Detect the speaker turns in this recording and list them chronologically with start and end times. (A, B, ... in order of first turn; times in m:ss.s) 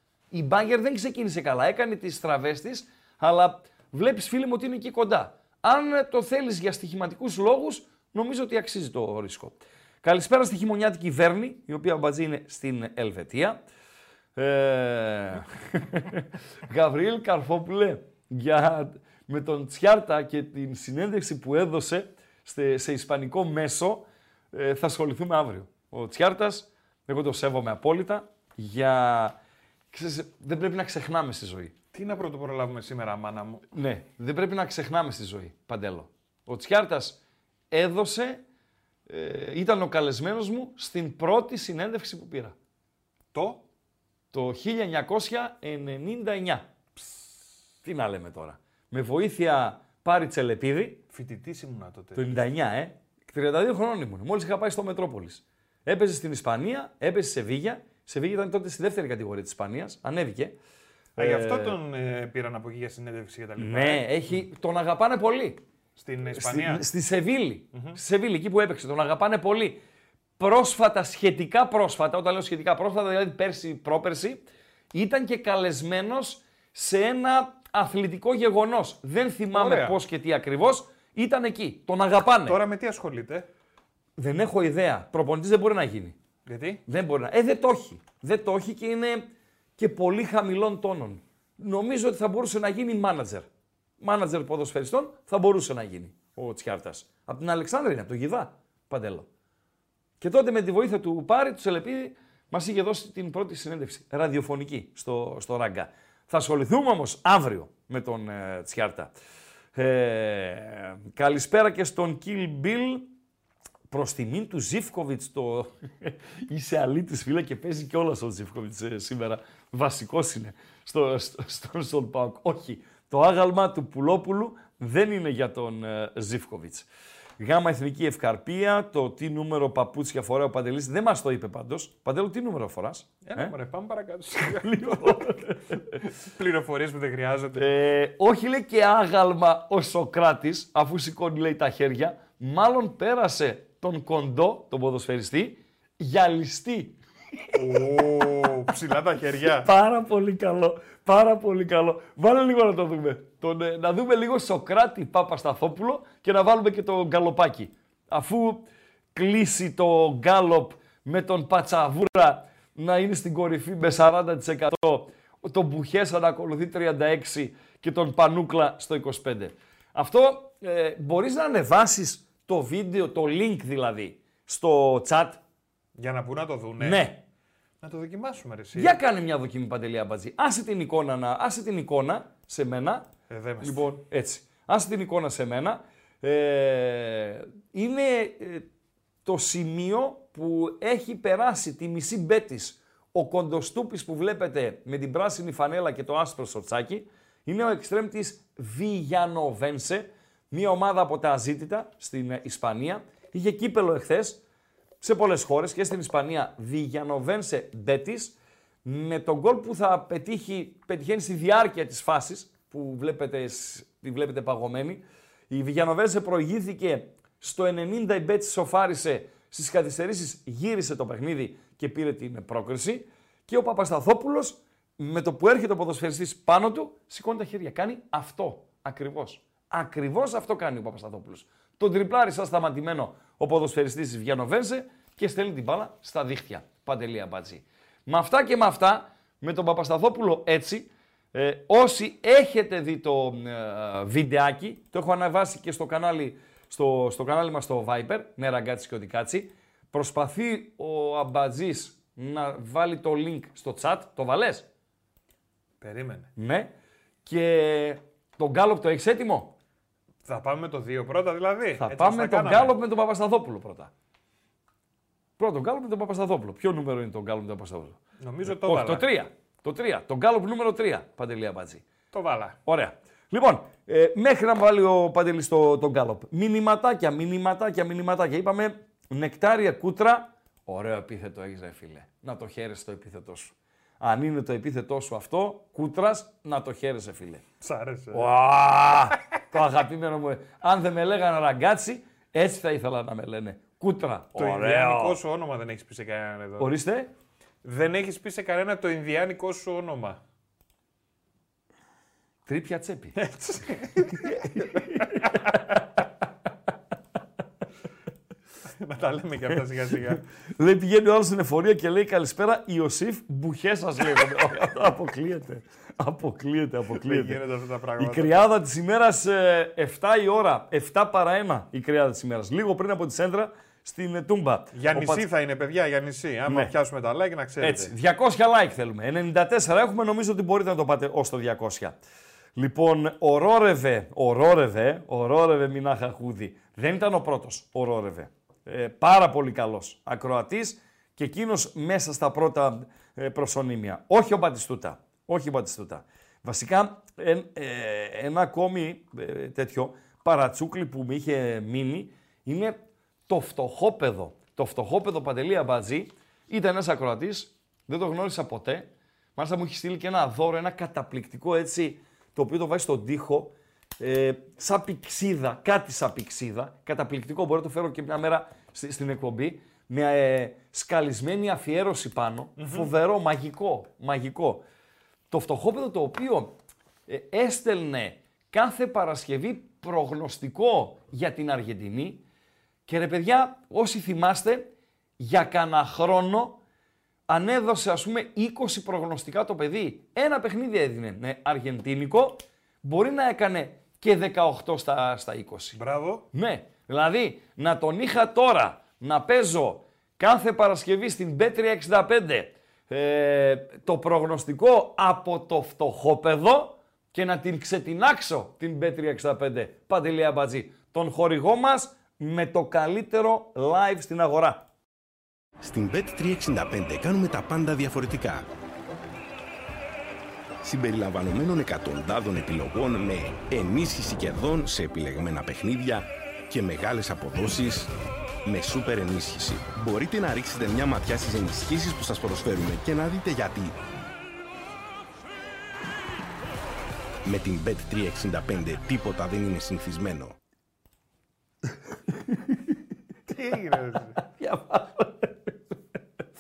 0:00.3-0:13.6 A
0:14.4-0:29.4 A
0:29.9-0:31.7 A
0:31.9-0:33.6 B
0:33.7-0:37.2 A
0:37.7-0:38.4 A
0:39.1-0:42.6 A
0:43.3-0:43.6 B
0:44.3-0:46.7 A
0:47.0-0:47.3 B
0:47.8-0:51.0 A
0:51.1-0:52.3 B
0:52.2-1:00.6 A
1:01.2-1:01.8 A
1:01.2-1:04.1 B
1:03.6-1:05.6 A
1:06.0-1:06.8 B
1:06.4-1:09.8 A
1:07.7-1:08.0 B
1:10.4-1:22.6 A
1:19.5-1:20.0 B
1:22.4-1:23.5 B
1:24.2-1:26.2 A
1:26.5-1:26.8 B
1:26.9-1:33.5 A
1:34.0-1:39.3 A
1:40.2-1:49.1 A
1:49.8-1:53.1 A
1:53.9-2:06.9 A
2:07.4-2:13.5 A
2:13.3-2:15.3 B
2:14.4-2:16.1 A
2:16.3-2:17.7 B
2:17.6-2:27.6 A
2:27.6-2:29.7 B
2:29.6-2:55.4 A
2:56.0-2:57.0 B
2:56.8-2:57.2 A
2:57.8-2:59.0 B
2:58.8-3:03.1 A
3:03.3-3:04.0 B
3:03.6-3:08.7 A
3:09.2-3:24.4 A
3:25.0-4:14.7 A
4:15.8-4:16.3 B
4:16.4-4:16.7 A
4:17.2-4:19.6 A
4:20.2-4:22.8 B
4:21.8-4:23.9 A
4:25.4-4:31.8 A
4:28.2-4:29.1 B
4:32.1-4:32.6 B
4:32.7-4:47.4 A
4:47.6-4:48.3 B
4:48.1-4:55.2 A
4:54.4-4:56.7 B
4:56.6-4:57.1 A
4:57.6-5:00.2 B
5:02.5-5:03.2 A
5:03.2-5:05.5 B
5:04.2-5:05.6 A
5:08.8-5:10.2 B
5:10.6-5:17.4 A
5:17.0-5:18.5 B
5:18.0-5:25.2 A
5:24.7-5:27.9 B
5:26.5-5:26.7 A
5:27.6-5:32.0 A
5:32.6-5:52.8 A
5:53.3-6:14.6 A
6:12.6-6:12.9 B
6:15.3-6:16.5 A
6:17.1-6:22.2 A
6:22.9-6:26.6 A
6:27.3-6:35.8 A
6:35.7-6:36.3 B
6:36.3-6:54.7 A
6:55.6-6:58.5 C
7:00.6-7:07.9 C
7:08.4-7:13.8 C
7:17.2-7:20.3 C
7:23.3-7:24.2 B
7:24.2-7:25.8 A